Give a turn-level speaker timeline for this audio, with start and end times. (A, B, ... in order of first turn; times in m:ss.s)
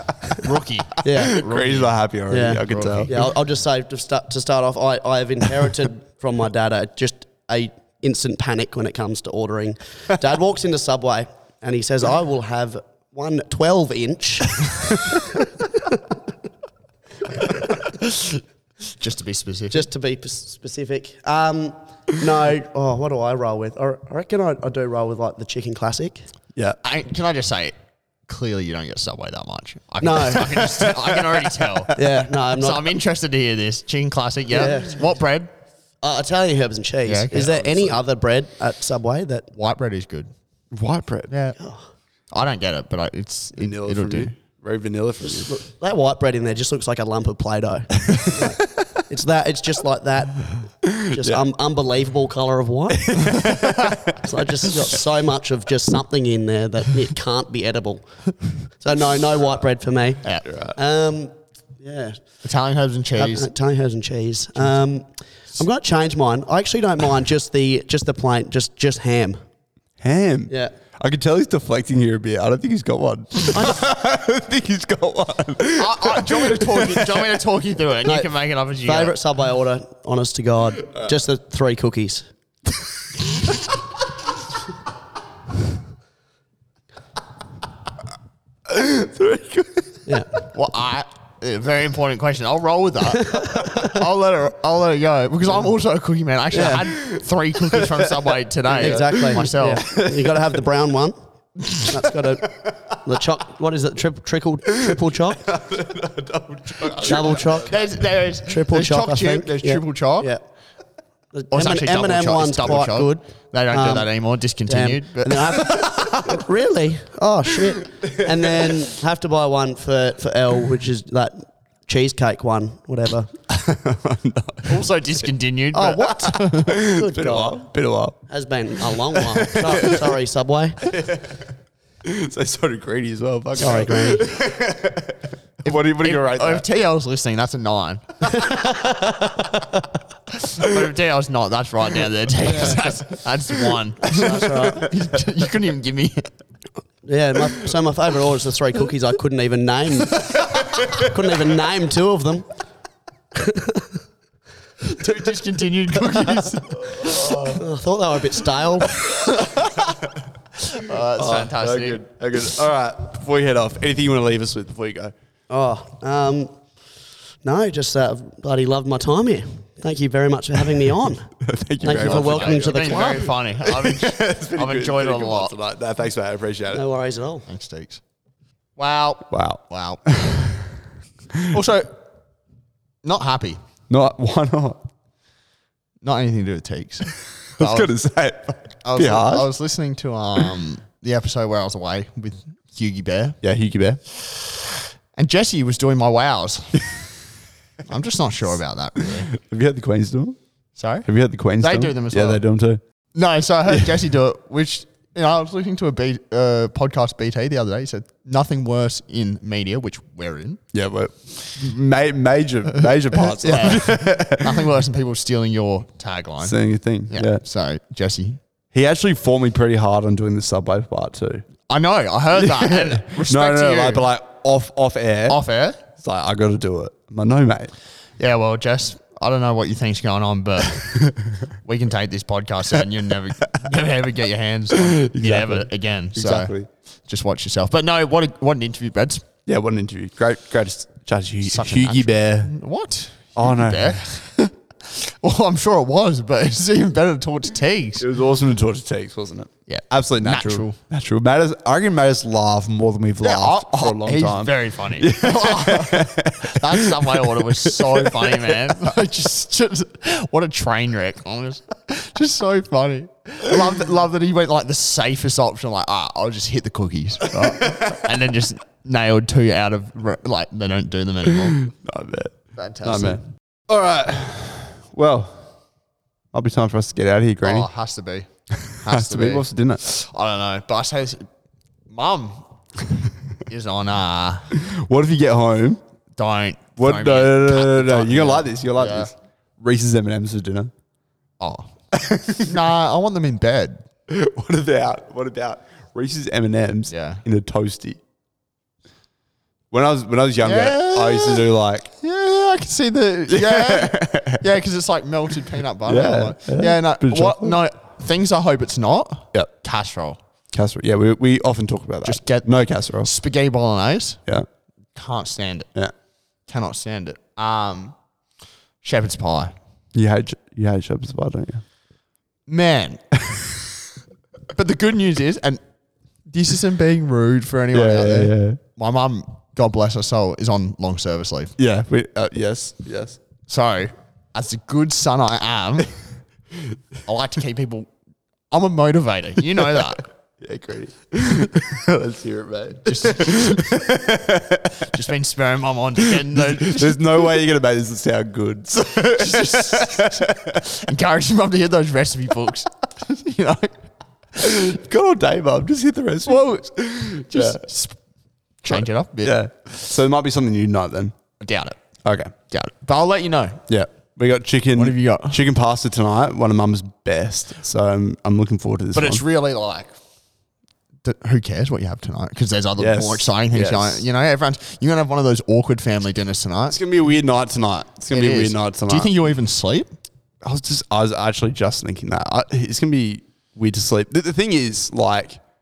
0:00.4-0:03.3 A
0:01.0-0:01.4 B
0:01.1-0:03.2 C
0:02.3-0:15.5 B
0:18.8-0:19.9 A
0:19.7-0:26.3 B
0:26.8-0:27.8 A
0:28.3-0:35.5 A
0:30.0-0:30.9 B
0:30.9-0:32.0 C
0:32.0-0:32.9 B
0:34.5-0:35.0 B
0:36.0-0:39.5 B
0:37.0-0:38.0 A
0:39.5-0:40.3 A
0:40.7-0:41.3 C
0:41.3-0:41.6 A
0:42.3-0:44.3 A
0:43.6-0:45.6 C
0:45.2-0:53.2 B
0:50.8-0:51.4 C
0:53.0-0:54.7 C
0:54.2-1:02.2 B
1:00.4-1:00.8 C
1:02.4-1:03.5 A
1:03.2-1:09.4 B
1:10.0-1:17.2 C
1:13.5-1:13.8 B
1:15.8-1:19.2 A
1:18.0-1:18.3 B
1:18.8-1:22.3 B
1:28.7-1:30.5 C
1:30.5-1:39.9 A
1:33.1-1:33.9 B
1:36.5-1:36.9 B
1:36.8-1:40.3 C
1:38.8-1:41.2 B
1:41.7-1:45.5 B
1:44.8-1:47.8 C
1:47.0-1:47.8 B
1:47.0-1:50.3 A
1:48.4-1:50.4 B
1:51.3-1:54.1 B
1:51.5-1:56.3 A
1:54.6-2:03.3 B
1:58.0-1:58.7 C
2:03.5-2:04.9 C
2:04.7-2:06.8 A
2:05.7-2:07.7 B
2:06.6-2:08.2 C
2:08.3-2:11.0 B
2:08.8-2:10.1 C
2:10.9-2:11.4 C
2:12.0-2:16.6 C
2:13.6-2:14.2 B
2:15.6-2:18.5 A
2:18.3-2:19.4 B
2:20.3-2:26.3 A
2:22.4-2:22.9 C
2:24.0-2:24.9 B
2:27.0-2:32.5 B
2:33.4-2:33.9 B
2:34.8-2:37.4 A
2:36.9-2:37.6 C
2:37.5-2:39.3 B
2:40.7-2:42.0 A
2:41.1-2:45.1 C
2:45.5-2:46.6 B
2:47.4-2:51.3 B
2:51.4-2:56.8 C
2:51.8-2:55.6 A
2:51.8-2:53.2 B
2:56.7-2:57.5 B
2:57.5-2:58.0 A
2:58.8-3:00.0 A
2:59.3-3:00.8 C
3:01.4-3:01.6 C
3:01.5-3:02.0 A
3:03.0-3:03.6 A
3:03.9-3:04.8 C
3:06.0-3:07.9 A
3:07.6-3:09.5 C
3:08.8-3:13.4 A
3:13.4-3:14.0 C
3:14.1-3:17.1 A
3:17.8-3:19.3 A
3:19.1-3:20.4 C
3:20.8-3:21.1 A
3:21.0-3:22.8 C
3:21.6-3:22.4 A
3:23.1-3:30.6 A
3:23.7-3:24.0 C
3:30.7-3:34.7 C
3:33.4-3:38.4 A
3:36.4-3:37.4 C
3:38.7-3:41.5 C
3:41.7-3:44.0 A
3:42.4-3:45.4 C
3:45.3-3:45.8 A
3:46.0-3:47.7 C
3:48.2-3:56.6 A
3:51.0-3:51.4 C
3:54.8-3:56.7 C
3:57.1-3:59.3 A
3:59.5-4:02.5 C
4:01.4-4:08.1 A
4:03.4-4:04.0 C
4:08.0-4:18.7 C
4:09.7-4:10.8 A
4:13.2-4:31.6 A
4:27.7-4:28.0 C
4:31.3-4:35.5 C
4:32.6-4:33.2 A
4:36.3-4:37.7 C
4:37.4-4:41.3 A
4:38.7-4:39.8 C
4:41.9-4:42.5 A
4:43.5-4:44.5 A
4:44.6-4:45.8 C
4:46.2-4:49.1 A
4:46.8-4:50.7 C
4:51.4-4:51.7 A
4:51.9-4:52.6 C
4:52.4-4:53.8 A
4:54.1-4:58.0 C
4:56.9-4:57.2 A
4:59.7-5:01.9 C
5:00.4-5:10.2 A
5:03.3-5:04.4 C
5:05.8-5:07.6 C
5:10.5-5:13.1 C
5:12.0-5:14.2 A
5:15.0-5:15.7 A
5:16.5-5:18.0 A
5:18.8-5:19.6 A
5:20.0-5:21.6 C
5:22.5-5:23.0 A
5:24.5-5:25.6 A
5:26.3-5:31.6 A
5:27.7-5:28.6 C
5:31.6-5:33.2 C
5:33.5-5:36.0 A
5:37.1-5:37.9 A
5:38.5-5:40.1 A
5:40.4-5:44.9 C
5:42.9-5:43.8 A
5:44.8-5:47.2 A
5:46.1-5:50.6 C
5:49.2-5:53.9 A
5:54.4-5:57.6 C
5:56.3-5:58.0 A
5:58.6-5:59.4 A
5:58.7-6:01.2 C
6:01.4-6:01.8 A
6:02.0-6:02.3 C
6:02.5-6:03.6 A
6:03.7-6:09.2 C
6:04.8-6:05.4 A
6:08.9-6:10.0 A
6:11.0-6:16.8 A
6:12.8-6:14.0 C
6:16.7-6:19.1 C
6:18.1-6:19.9 A
6:20.4-6:25.4 C